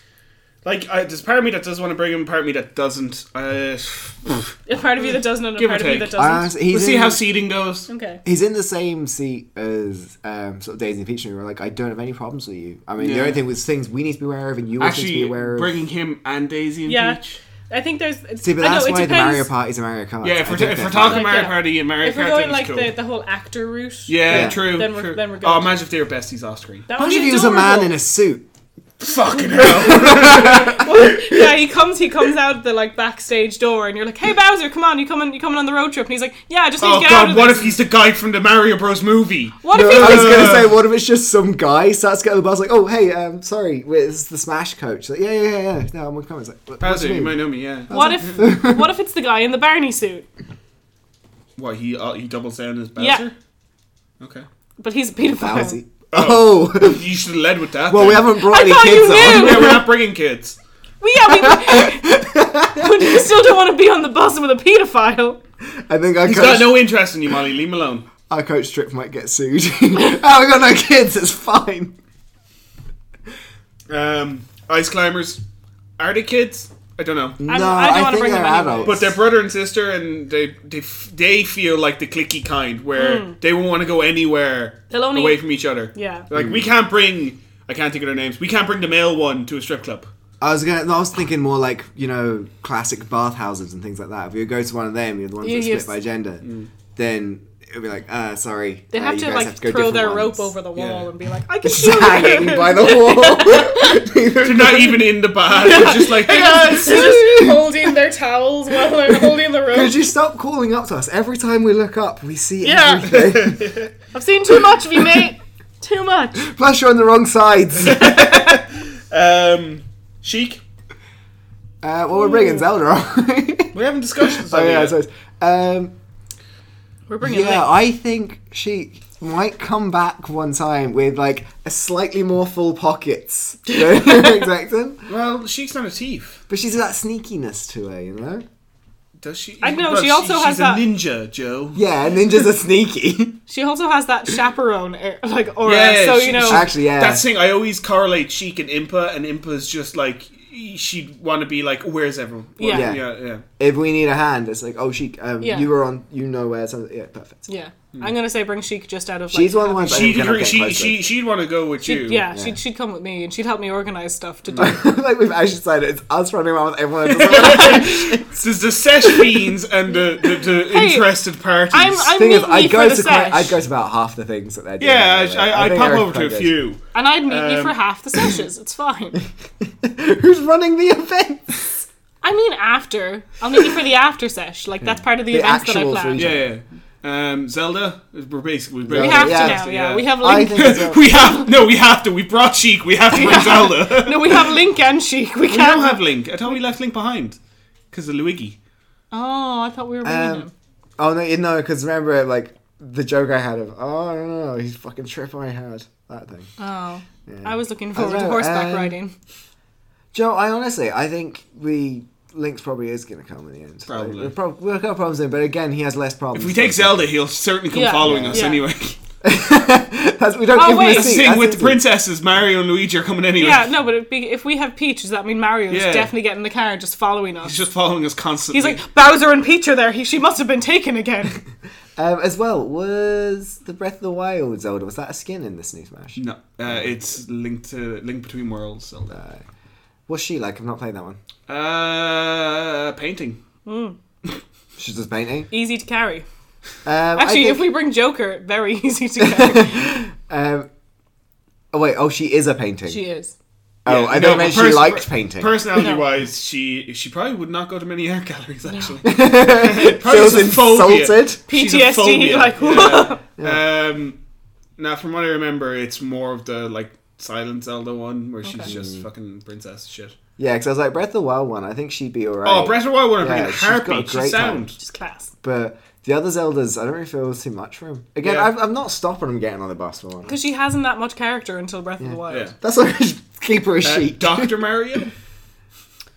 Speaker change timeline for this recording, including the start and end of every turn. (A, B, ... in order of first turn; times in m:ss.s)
0:00.6-0:04.6 A
0:04.7-0:06.5 B
0:05.6-0:07.9 A
0:06.2-0:07.2 C
0:07.9-0:08.2 B
0:08.2-0:15.7 C
0:13.0-0:13.4 A
0:14.8-0:17.4 A
0:16.8-0:19.5 B
0:18.4-0:21.2 C
0:20.2-0:22.9 A
0:20.9-0:25.8 B
0:24.1-0:26.9 A
0:24.3-0:24.6 C
0:26.9-0:28.0 B
0:26.9-0:28.4 C
0:29.0-0:30.9 A
0:29.6-0:37.8 B
0:29.6-0:30.8 C
0:36.8-0:40.8 A
0:39.6-0:40.5 B
0:39.7-0:48.9 C
0:46.8-0:48.4 A
0:47.9-0:50.2 B
0:51.6-0:53.3 A
0:53.0-0:53.2 B
0:54.2-0:54.4 A
0:54.8-0:55.8 B
0:55.4-0:57.1 C
0:56.1-0:58.3 A
0:57.9-0:59.8 C
0:58.4-0:59.8 B
0:59.2-1:00.6 A
1:01.0-1:05.4 B
1:01.3-1:03.3 C
1:05.8-1:06.9 C
1:06.2-1:08.1 A
1:08.3-1:11.9 C
1:13.9-1:15.4 A
1:16.0-1:17.4 A
1:17.4-1:19.1 C
1:17.5-1:19.1 B
1:18.8-1:30.1 A
1:23.0-1:23.4 B
1:24.9-1:25.4 B
1:25.9-1:26.3 B
1:26.3-1:26.6 C
1:30.4-1:40.5 C
1:35.4-1:35.9 B
1:36.4-1:36.7 A
1:38.9-1:44.0 B
1:40.8-1:41.1 A
1:41.6-1:45.2 C
1:44.4-1:47.2 A
1:45.5-1:50.0 B
1:46.8-1:47.6 C
1:49.3-1:53.7 C
1:52.6-1:53.3 B
1:53.1-1:53.9 A
1:54.1-1:56.5 B
1:56.4-1:58.4 C
1:57.8-2:00.6 A
1:58.0-1:58.5 B
2:01.8-2:03.7 C
2:02.2-2:02.6 B
2:03.7-2:05.0 A
2:04.3-2:05.9 C
2:07.1-2:07.7 B
2:07.2-2:15.0 C
2:13.7-2:14.5 B
2:15.1-2:16.4 A
2:16.5-2:18.4 C
2:19.2-2:21.8 A
2:19.6-2:20.8 B
2:21.7-2:23.4 C
2:23.5-2:26.7 B
2:25.6-2:33.4 A
2:26.4-2:27.2 C
2:32.6-2:32.9 B
2:32.7-2:37.4 C
2:35.4-2:35.7 B
2:37.4-2:40.2 B
2:39.3-2:41.0 C
2:39.8-2:42.3 A
2:41.8-2:44.8 B
2:44.6-2:48.4 C
2:47.1-2:52.2 A
2:49.1-2:49.4 C
2:50.6-2:51.1 B
2:51.7-2:53.6 B
2:52.1-2:56.6 C
2:54.8-2:57.8 A
2:56.9-2:59.2 B
2:59.6-3:01.9 C
3:02.2-3:06.3 B
3:04.8-3:06.4 C
3:06.2-3:14.6 A
3:08.8-3:09.6 C
3:08.9-3:11.6 B
3:10.2-3:11.0 C
3:13.1-3:16.0 B
3:15.5-3:17.4 A
3:17.9-3:18.6 A
3:19.1-3:20.5 B
3:20.0-3:20.5 C
3:21.0-3:26.5 C
3:26.6-3:29.1 B
3:27.3-3:29.0 C
3:30.1-3:37.1 C
3:33.9-3:34.3 A
3:36.3-3:39.0 A
3:37.7-3:38.6 B
3:38.0-3:38.5 C
3:39.2-3:41.8 C
3:40.5-3:41.2 B
3:40.8-3:43.7 A
3:43.4-3:47.6 B
3:45.7-3:46.1 A
3:47.4-3:48.8 A
3:48.5-3:51.4 B
3:52.0-3:56.8 C
3:56.2-3:59.2 A
3:59.1-3:59.4 C
4:00.1-4:01.2 C
4:01.5-4:03.4 A
4:03.6-4:04.0 B
4:04.8-4:05.5 C
4:05.5-4:06.2 B
4:06.8-4:07.6 C
4:07.1-4:10.1 B
4:09.2-4:10.7 C
4:11.7-4:13.0 C
4:12.9-4:13.3 B
4:13.8-4:15.6 C
4:13.8-4:24.2 A
4:15.7-4:16.1 B
4:19.0-4:21.4 C
4:21.5-4:23.2 B
4:24.8-4:30.1 A
4:28.4-4:28.7 B
4:28.7-4:29.0 C
4:30.4-4:34.7 C
4:32.4-4:34.8 A
4:34.8-4:35.3 B
4:35.4-4:40.4 C
4:38.2-4:38.5 A
4:40.2-4:42.5 B
4:42.0-4:44.5 C
4:42.3-4:42.5 A
4:43.8-4:45.1 A